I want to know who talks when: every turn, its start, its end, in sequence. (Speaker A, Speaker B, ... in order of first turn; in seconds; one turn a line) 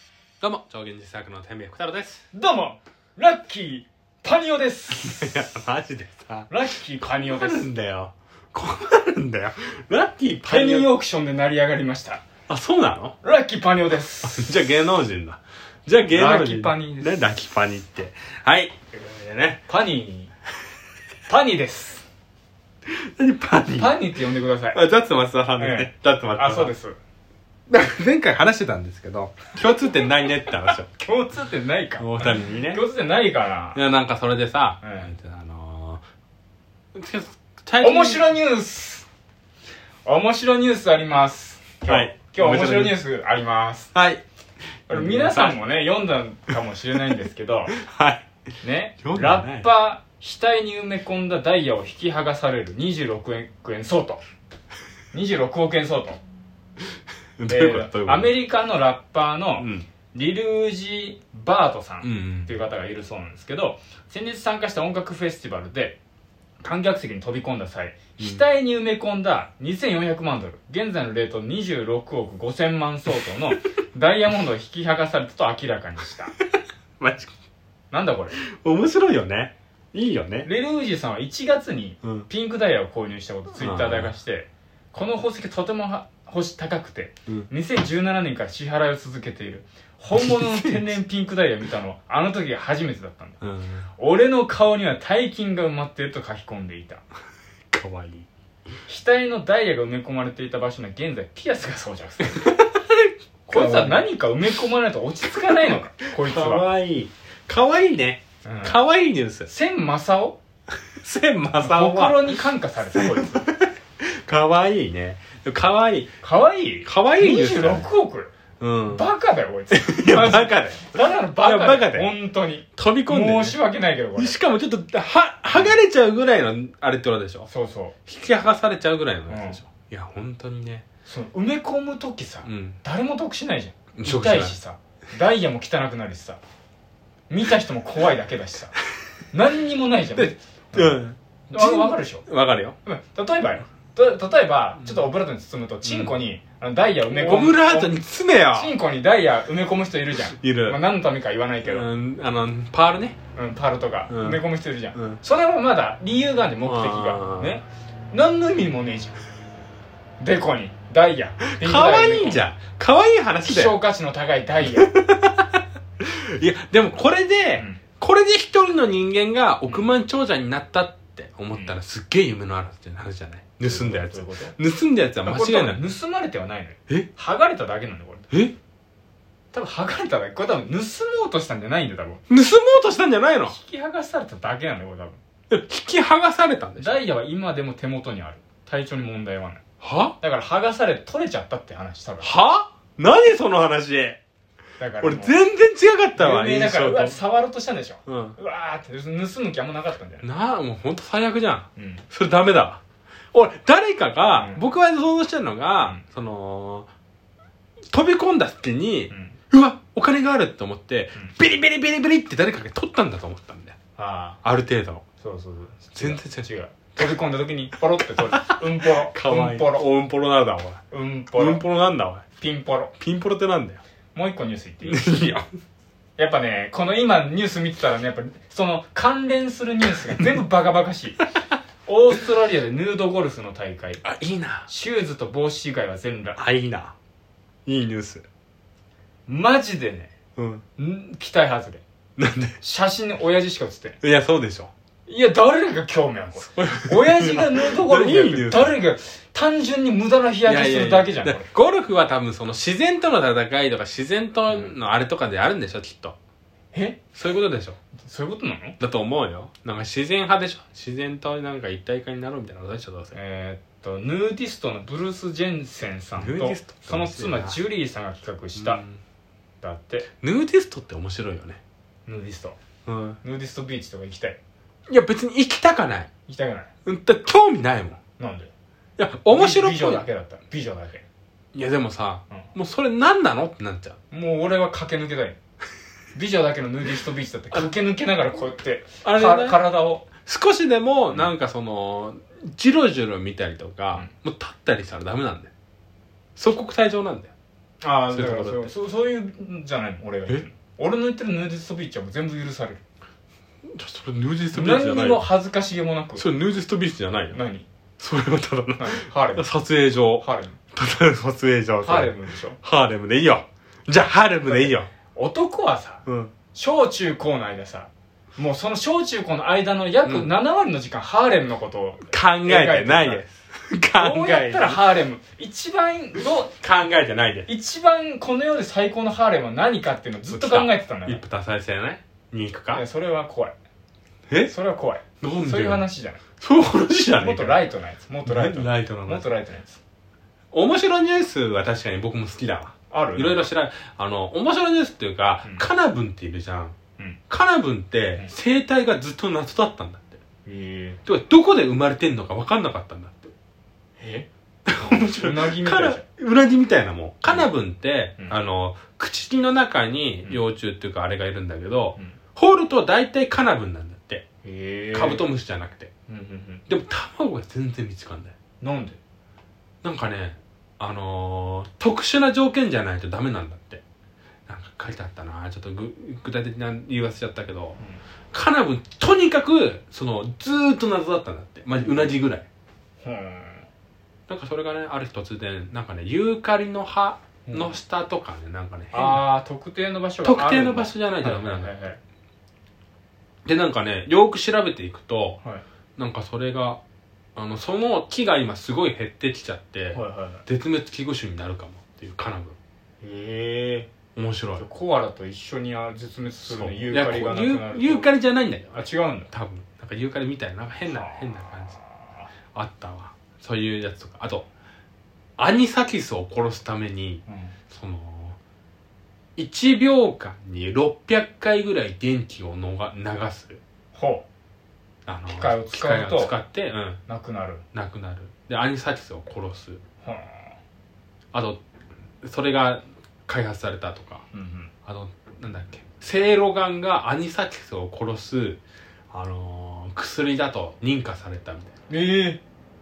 Speaker A: 0.4-2.2
Speaker B: 2.3-5.4
Speaker A: 4.9-10.9
Speaker B: 6.5-7.7
Speaker B: 10.4-12.2
Speaker A: 12.5-13.2
Speaker B: 13.2-14.5
Speaker A: 14.2-19.6
Speaker B: 16.1-17.4
Speaker B: 19.7-20.3
Speaker B: 21.3-22.1
Speaker A: 22.9-26.7
Speaker B: 23.7-24.8
Speaker B: 25.6-27.0
Speaker A: 27.7-30.9
Speaker B: 31.0-33.8
Speaker A: 32.0-32.8
Speaker A: 33.7-36.0
Speaker B: 34.8-35.1
Speaker A: 36.9-38.3
Speaker B: 37.8-39.1
Speaker B: 40.0-43.9
Speaker A: 41.9-43.0
Speaker A: 43.9-44.2
Speaker A: 44.9-45.6
Speaker B: 44.9-47.7
Speaker A: 47.7-48.3
Speaker B: 48.6-54.2
Speaker A: 49.0-49.7
Speaker B: 55.1-56.2
Speaker A: 57.4-58.3
Speaker B: 57.5-66.0
Speaker A: 59.6-59.9
Speaker A: 62.0-62.6
Speaker B: 66.6-76.3
Speaker A: 77.0-77.3
Speaker B: 77.9-78.4
Speaker A: 78.4-80.5
Speaker B: 80.4-93.4
Speaker A: 82.0-82.3
Speaker A: 83.5-84.1
Speaker A: 90.1-91.0
Speaker A: 93.4-93.9
Speaker B: 94.0-97.0
Speaker A: 97.7-98.3
Speaker B: 98.9-102.5
Speaker A: 102.3-104.1
Speaker B: 103.5-106.7
Speaker A: 105.5-109.5
Speaker B: 108.4-108.8
Speaker B: 109.5-110.4
Speaker A: 110.9-112.4
Speaker B: 111.6-113.5
Speaker A: 112.9-116.1
Speaker B: 116.2-118.3
Speaker A: 116.8-117.9
Speaker A: 118.6-119.0
Speaker B: 118.9-124.4
Speaker A: 119.7-122.1
Speaker A: 122.7-123.6
Speaker A: 124.1-127.5
Speaker B: 127.5-128.0
Speaker A: 128.1-130.8
Speaker B: 129.3-129.6
Speaker B: 131.1-136.4
Speaker A: 132.4-132.8
Speaker A: 134.0-134.5
Speaker B: 137.3-138.8
Speaker B: 139.3-141.0
Speaker A: 140.1-142.8
Speaker B: 141.5-142.2
Speaker B: 142.8-148.0
Speaker A: 145.8-146.2
Speaker A: 147.1-148.8
Speaker B: 148.5-151.9
Speaker A: 150.3-150.8
Speaker A: 151.6-153.2
Speaker B: 153.3-159.2
Speaker A: 154.1-154.4
Speaker A: 154.9-155.2
Speaker A: 156.6-157.6
Speaker B: 160.2-162.4
Speaker A: 161.6-163.8
Speaker B: 163.4-164.9
Speaker A: 164.7-175.8
Speaker B: 173.6-174.5
Speaker B: 175.2-178.3
Speaker A: 178.3-178.5
Speaker B: 179.5-182.2
Speaker A: 182.3-183.5
Speaker B: 183.4-185.2
Speaker A: 185.5-187.0
Speaker B: 186.8-189.6
Speaker A: 189.8-190.2
Speaker B: 190.2-192.3
Speaker A: 192.2-194.2
Speaker B: 194.8-195.4
Speaker A: 195.0-197.2
Speaker B: 196.1-200.3
Speaker A: 198.1-198.3
Speaker A: 200.2-202.8
Speaker B: 201.8-202.0
Speaker A: 203.3-206.9
Speaker B: 204.3-204.6
Speaker A: 207.9-213.8
Speaker B: 209.1-209.4
Speaker B: 213.9-214.4
Speaker A: 214.4-215.0
Speaker B: 215.2-219.9
Speaker A: 215.9-217.2
Speaker A: 218.2-220.8
Speaker B: 220.9-221.6
Speaker A: 221.3-222.2
Speaker B: 222.4-222.9
Speaker A: 223.0-223.8
Speaker B: 224.1-225.1
Speaker A: 224.8-225.4
Speaker B: 226.2-231.2
Speaker B: 231.8-234.0
Speaker A: 234.0-234.7
Speaker B: 234.7-236.4
Speaker A: 236.4-236.9
Speaker A: 237.7-238.2
Speaker B: 239.3-240.1
Speaker A: 240.3-240.6
Speaker B: 240.8-241.8
Speaker A: 242.2-242.5
Speaker B: 242.6-244.0
Speaker A: 244.0-244.7
Speaker B: 245.1-251.5
Speaker A: 246.5-248.7
Speaker A: 250.4-256.1
Speaker B: 256.7-257.0
Speaker A: 257.1-257.8
Speaker B: 258.0-258.8
Speaker A: 258.8-263.1
Speaker B: 263.1-268.8
Speaker A: 266.1-267.6
Speaker A: 268.6-269.0
Speaker B: 269.6-270.1
Speaker A: 270.2-271.6
Speaker B: 272.1-272.6
Speaker A: 272.9-273.2
Speaker B: 273.2-274.4
Speaker A: 274.9-276.1
Speaker B: 276.3-276.7
Speaker A: 276.8-278.0
Speaker B: 278.2-278.5
Speaker A: 279.0-280.0
Speaker B: 279.3-281.0
Speaker A: 281.5-284.0
Speaker B: 284.1-285.4
Speaker B: 286.1-290.1
Speaker A: 289.0-289.6
Speaker A: 290.2-295.5
Speaker A: 296.4-297.3
Speaker B: 297.8-302.8
Speaker A: 298.1-298.7
Speaker A: 303.7-305.2
Speaker B: 304.5-306.2
Speaker A: 306.1-307.4
Speaker B: 307.3-307.6
Speaker A: 308.0-314.9
Speaker B: 308.8-309.5
Speaker B: 310.1-310.6
Speaker B: 311.8-312.6
Speaker B: 314.5-323.2
Speaker A: 316.1-316.3
Speaker A: 320.0-320.3
Speaker A: 322.1-324.9
Speaker B: 324.0-326.5
Speaker A: 326.4-327.5
Speaker B: 327.5-331.2
Speaker A: 330.3-332.8
Speaker B: 332.7-333.5
Speaker B: 334.5-336.2
Speaker A: 335.2-335.9
Speaker A: 336.4-337.7
Speaker B: 337.2-339.8
Speaker A: 338.2-339.2
Speaker A: 340.5-346.8
Speaker B: 342.9-343.5
Speaker A: 347.3-350.2
Speaker B: 350.4-351.0
Speaker A: 351.1-353.3
Speaker B: 354.0-356.0
Speaker A: 354.7-364.2
Speaker B: 364.4-365.3
Speaker A: 364.9-365.9
Speaker B: 366.1-366.6
Speaker A: 366.7-368.3
Speaker B: 368.6-369.0
Speaker A: 369.8-373.8
Speaker A: 374.5-377.8
Speaker A: 378.3-382.4
Speaker B: 381.8-382.1
Speaker B: 383.0-383.7
Speaker A: 384.3-389.2
Speaker B: 387.5-387.8
Speaker B: 388.9-392.0
Speaker A: 390.2-391.8
Speaker A: 393.4-395.4
Speaker A: 396.0-396.8
Speaker A: 397.3-402.6
Speaker B: 399.9-400.4
Speaker B: 403.0-403.9
Speaker A: 404.1-404.6
Speaker B: 404.6-408.1
Speaker A: 406.4-411.8
Speaker B: 408.7-409.3
Speaker B: 410.9-412.3
Speaker A: 412.5-414.4
Speaker A: 415.4-418.4
Speaker B: 417.3-417.6
Speaker A: 419.4-423.6
Speaker B: 423.9-424.3
Speaker A: 425.1-427.0
Speaker B: 425.3-426.3
Speaker B: 427.1-427.6
Speaker A: 427.7-429.8
Speaker B: 430.0-430.6
Speaker A: 431.3-431.6
Speaker A: 432.2-434.2
Speaker B: 434.3-434.7
Speaker A: 434.9-441.7
Speaker B: 441.9-442.4